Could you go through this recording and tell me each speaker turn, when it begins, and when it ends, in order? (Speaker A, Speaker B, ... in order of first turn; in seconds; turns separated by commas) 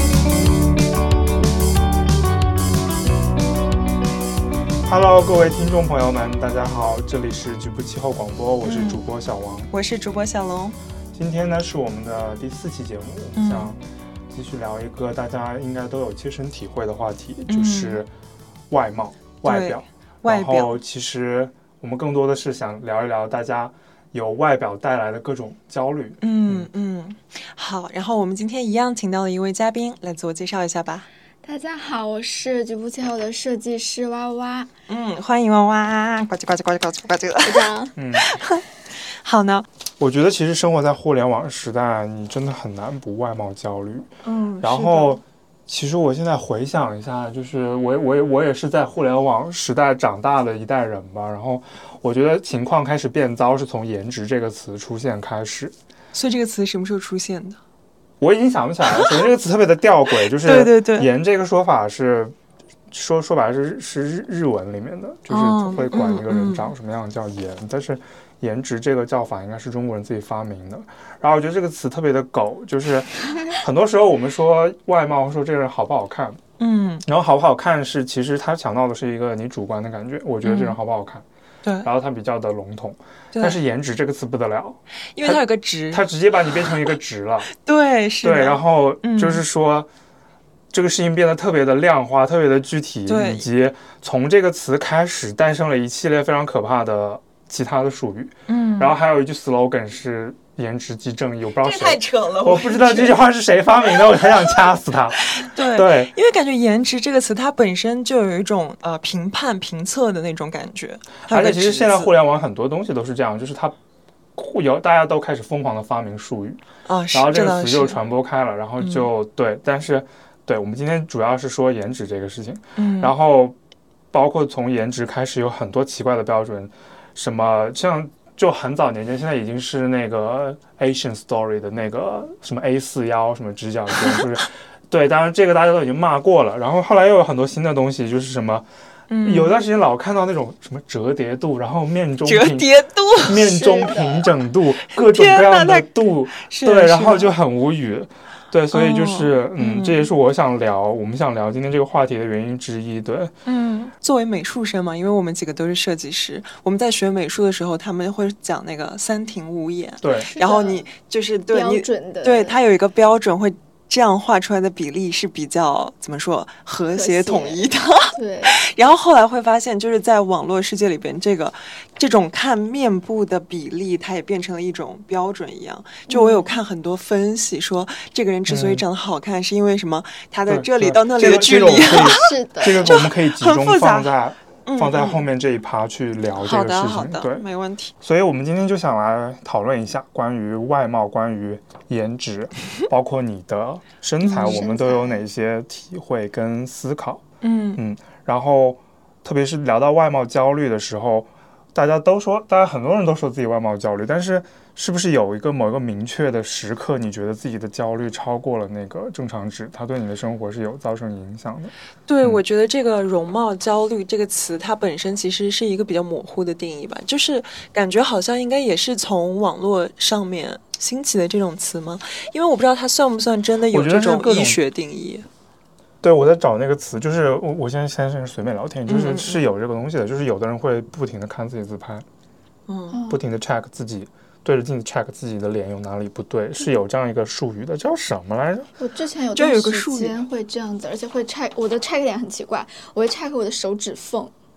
Speaker A: 4.8-9.7, Speaker B: 8.6-9.0, Speaker B: 9.7-10.8, Speaker A: 11.1-18.1, Speaker B: 13.3-13.7, Speaker B: 17.5-18.0, Speaker A: 18.7-26.7, Speaker B: 19.4-20.8, Speaker B: 26.2-31.1, Speaker C: 31.4-34.7, Speaker B: 34.9-39.7, Speaker C: 37.4-37.9, Speaker A: 38.0-38.3, Speaker A: 40.0-44.1, Speaker B: 44.2-45.2, Speaker A: 44.6-55.7, Speaker B: 56.1-57.6, Speaker A: 58.2-62.3, Speaker B: 58.9-59.2, Speaker B: 60.2-61.1, Speaker A: 62.9-76.4, Speaker B: 65.3-66.7, Speaker B: 76.6-77.0, Speaker A: 77.0-81.2, Speaker B: 80.4-80.8, Speaker A: 81.8-87.5, Speaker B: 85.2-86.9, Speaker B: 87.5-89.4, Speaker A: 88.2-89.9, Speaker A: 90.7-106.1, Speaker B: 93.1-93.5, Speaker B: 98.5-98.9, Speaker B: 101.6-103.2, Speaker B: 105.3-112.1, Speaker A: 111.3-113.8, Speaker A: 114.3-116.6, Speaker B: 116.8-118.0, Speaker A: 117.1-123.5, Speaker B: 118.8-119.1, Speaker B: 122.8-123.1, Speaker A: 124.1-138.7, Speaker B: 139.1-139.6, Speaker A: 139.2-153.3, Speaker B: 142.2-143.5, Speaker C: 143.3-144.3, Speaker B: 144.9-147.3, Speaker B: 148.7-150.1, Speaker B: 153.4-184.1, Speaker A: 160.0-160.3, Speaker C: 160.3-160.8, Speaker C: 161.5-162.6, Speaker C: 166.9-168.5, Speaker C: 176.1-176.5, Speaker A: 178.5-178.8, Speaker A: 180.5-187.4, Speaker C: 181.8-183.1, Speaker B: 184.6-185.2, Speaker B: 186.4-187.9, Speaker A: 188.0-197.2, Speaker B: 194.2-194.6, Speaker C: 194.4-195.2, Speaker B: 197.4-197.8, Speaker A: 197.8-212.4, Speaker B: 212.1-225.3, Speaker A: 223.7-224.6, Speaker A: 226.0-232.0, Speaker B: 228.9-229.4, Speaker B: 232.7-233.0, Speaker C: 232.9-233.2, Speaker A: 233.1-238.7, Speaker C: 238.8-244.3, Speaker B: 239.3-240.2